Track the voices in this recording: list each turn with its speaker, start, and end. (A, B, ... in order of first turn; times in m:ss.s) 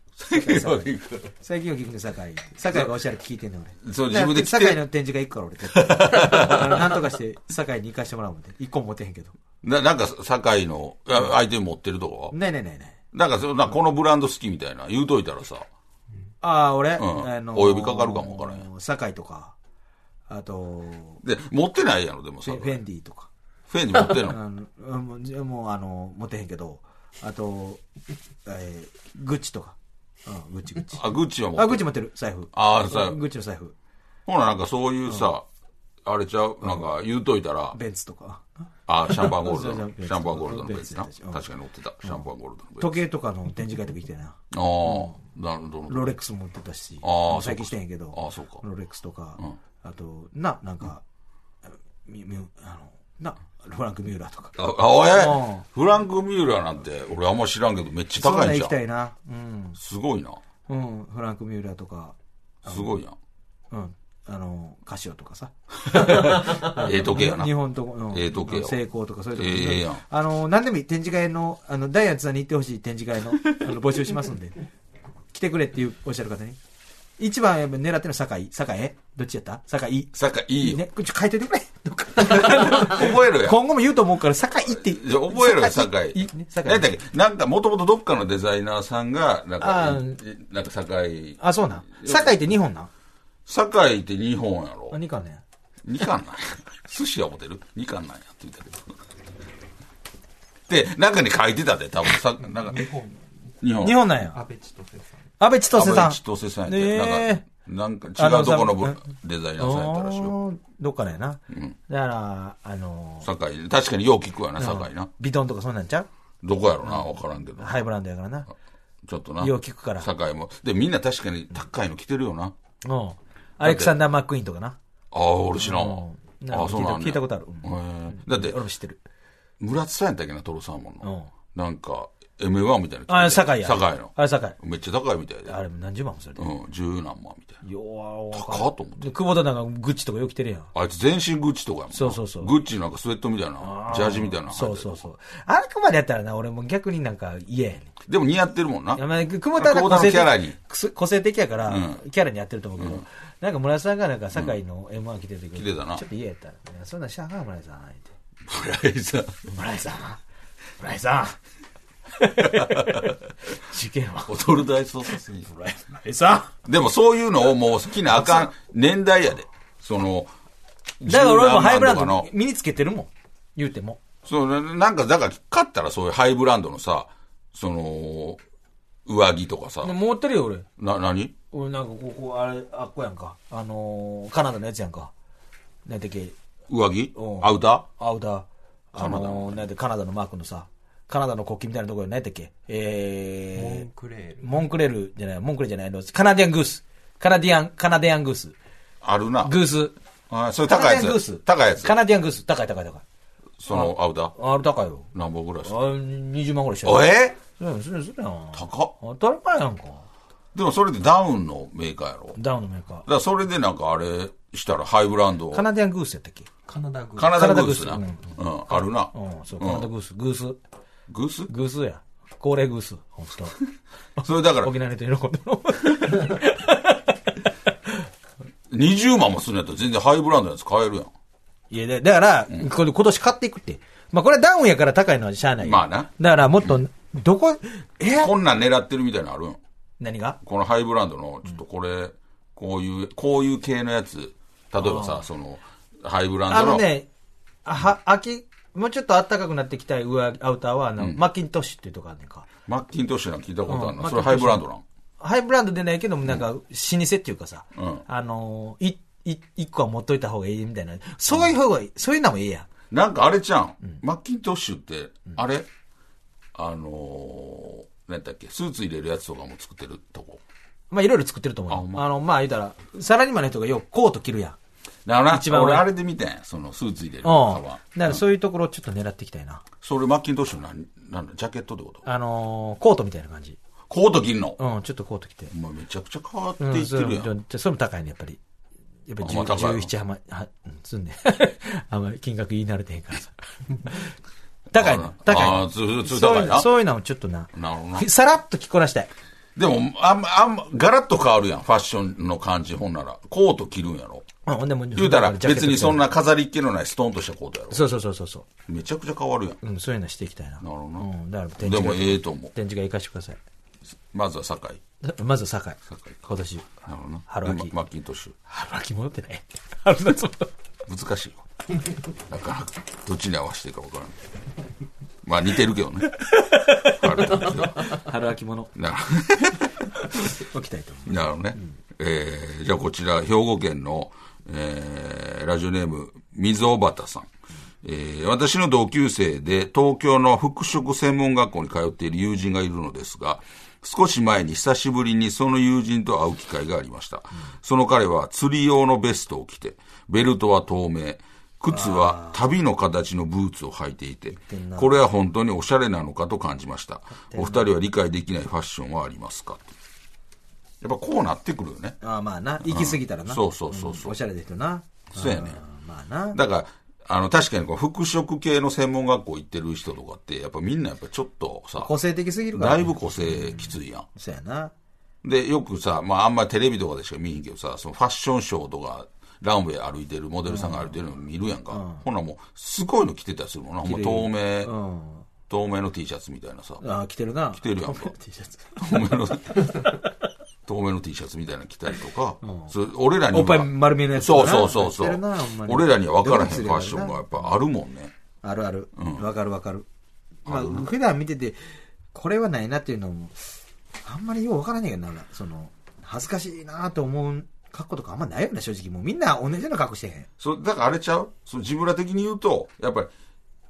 0:00.2-0:01.3 A
0:00.3-0:09.4 B
0:03.8-0:04.8 A
0:05.7-0:06.9 A
0:09.6-0:12.4 A
0:12.3-0:13.0 B
0:13.1-0:15.7 A
0:16.4-0:19.6 B
0:17.0-0:18.7 A
0:20.3-0:21.2 B
0:21.2-0:22.8 A
0:22.4-0:23.3 B
0:23.7-0:24.4 A
0:24.2-0:27.8 B
0:28.5-0:31.0 B
0:30.9-0:31.9 A
0:31.6-0:33.7 B
0:32.5-0:33.2 A
0:34.3-0:35.5 A
0:36.0-0:37.8 A
0:37.7-0:41.4 B
0:38.9-0:43.0 A
0:42.8-0:45.2 B
0:44.5-0:46.1 A
0:45.9-0:51.0 B
0:47.0-0:48.6 A
0:52.1-0:54.6 B
0:54.6-0:58.8 A
0:55.1-0:55.6 B
0:58.2-0:59.8 B
0:59.8-1:00.4 A
1:00.7-1:03.0 B
1:02.7-1:03.2 A
1:03.7-1:14.6 B
1:05.9-1:08.8 A
1:09.4-1:10.0 A
1:15.3-1:16.6 B
1:17.2-1:26.9 B
1:20.2-1:20.8 A
1:22.2-1:23.6 A
1:24.7-1:31.4 A
1:29.6-1:30.2 B
1:31.4-1:32.9 B
1:32.0-1:32.3 A
1:33.5-1:35.0 A
1:34.9-1:35.4 B
1:35.8-1:38.9 A
1:40.7-1:42.9 A
1:42.6-1:43.2 C
1:43.6-1:44.0 A
1:43.8-1:44.4 B
1:44.3-1:45.3 C
1:45.4-1:47.4 B
1:45.7-1:50.4 A
1:48.2-1:49.0 B
1:49.6-1:53.3 B
1:51.5-1:51.8 A
1:53.2-1:55.1 A
1:54.6-1:56.1 B
1:56.4-1:57.8 A
1:56.8-1:58.5 B
1:59.0-2:02.5 A
1:59.4-2:00.1 B
2:02.8-2:04.8 B
2:03.6-2:04.0 A
2:05.1-2:08.6 A
2:05.6-2:09.0 B
2:09.6-2:15.6 A
2:11.0-2:11.3 B
2:13.1-2:14.6 B
2:15.5-2:16.5 B
2:16.4-2:17.6 A
2:17.6-2:20.7 B
2:18.3-2:19.1 A
2:20.7-2:25.0 A
2:21.9-2:22.5 B
2:23.6-2:27.9 B
2:28.1-2:29.0 A
2:29.0-2:38.1 B
2:29.6-2:30.6 A
2:31.7-2:32.0 A
2:32.8-2:33.0 A
2:35.6-2:36.0 A
2:38.5-2:39.4 A
2:39.5-2:40.2 B
2:40.8-2:41.4 B
2:42.2-2:44.5 B
2:42.4-2:43.1 A
2:44.3-2:45.6 A
2:45.5-2:46.5 B
2:46.6-2:50.3 A
2:51.0-2:52.3 A
2:51.0-2:54.0 B
2:54.2-2:58.4 A
2:59.1-3:00.0 A
2:59.8-3:00.7 B
3:00.8-3:01.4 A
3:01.5-3:05.1 B
3:05.9-3:06.4 B
3:06.7-3:07.9 A
3:07.2-3:13.9 B
3:09.0-3:09.6 A
3:13.6-3:14.7 C
3:14.4-3:18.6 B
3:19.0-3:19.6 A
3:19.4-3:20.0 B
3:20.3-3:22.0 A
3:20.7-3:23.0 B
3:23.6-3:24.3 A
3:23.7-3:25.1 B
3:25.1-3:25.8 A
3:25.6-3:30.0 B
3:26.8-3:27.4 A
3:28.5-3:28.9 A
3:30.5-3:32.4 A
3:32.4-3:33.1 B
3:33.1-3:35.7 A
3:35.5-3:36.5 B
3:36.7-3:37.4 C
3:37.2-3:39.9 A
3:37.3-3:40.6 B
3:41.1-3:41.5 A
3:41.5-3:43.6 B
3:44.2-3:47.1 B
3:44.2-3:44.7 A
3:48.7-3:51.1 A
3:51.7-3:58.3 B
3:55.6-3:56.1 A
3:58.2-3:59.6 A
4:00.0-4:00.4 B
4:00.4-4:06.9 A
4:04.8-4:05.2 B
4:06.5-4:07.1 B
4:07.6-4:12.5 B
4:12.7-4:14.8 A
4:13.7-4:14.6 B
4:15.2-4:22.7 B
4:17.8-4:18.0 A
4:22.9-4:25.7 A
4:26.6-4:30.4 A
4:30.9-4:34.6 B
4:31.7-4:32.0 A
4:35.1-4:38.2 A
4:35.3-4:35.9 B
4:37.2-4:39.6 B
4:39.8-4:42.0 A
4:42.0-4:43.6 B
4:43.9-4:44.6 A
4:44.6-4:45.5 B
4:45.5-4:47.3 A
4:46.6-4:48.4 B
4:49.1-4:54.1 B
4:49.2-4:49.9 A
4:54.7-4:56.7 A
4:54.7-4:59.1 B
4:57.5-4:58.1 A
4:59.6-5:04.3 A
5:04.5-5:06.0 B
5:05.0-5:07.9 A
5:07.7-5:08.5 B
5:08.7-5:09.6 A
5:09.6-5:13.4 B
5:10.6-5:11.1 A
5:11.6-5:12.5 A
5:14.1-5:14.8 A
5:15.0-5:16.7 B
5:15.9-5:16.2 A
5:16.8-5:18.4 A
5:17.3-5:17.7 B
5:18.5-5:20.5 B
5:20.9-5:21.4 A
5:22.3-5:24.2 A
5:25.2-5:26.2 A
5:26.2-5:28.7 B
5:27.0-5:27.9 A
5:28.8-5:29.8 A
5:30.2-5:31.7 B
5:31.1-5:37.3 A
5:37.8-5:59.7 A
5:51.7-5:52.4 B
5:54.5-5:55.0 B
5:57.3-5:57.7 B
6:00.8-6:02.0 A
6:02.0-6:06.4 B
6:02.6-6:04.2 A
6:05.1-6:05.6 A
6:06.3-6:11.9 A
6:11.8-6:14.7 B
6:12.5-6:14.1 A
6:15.2-6:24.7 A
6:20.5-6:20.9 B
6:21.7-6:22.0 B
6:23.8-6:25.3 B
6:25.5-6:26.8 A
6:26.8-6:29.0 B
6:27.6-6:28.1 A
6:28.8-6:29.9 A
6:30.7-6:38.1 A
6:32.4-6:32.7 B
6:33.3-6:37.4 B
6:38.4-6:39.9 B
6:39.0-6:39.2 A
6:40.5-6:41.6 B
6:40.5-6:40.9 A
6:42.1-6:43.5 B
6:44.0-6:50.3 B
6:50.4-6:53.1 A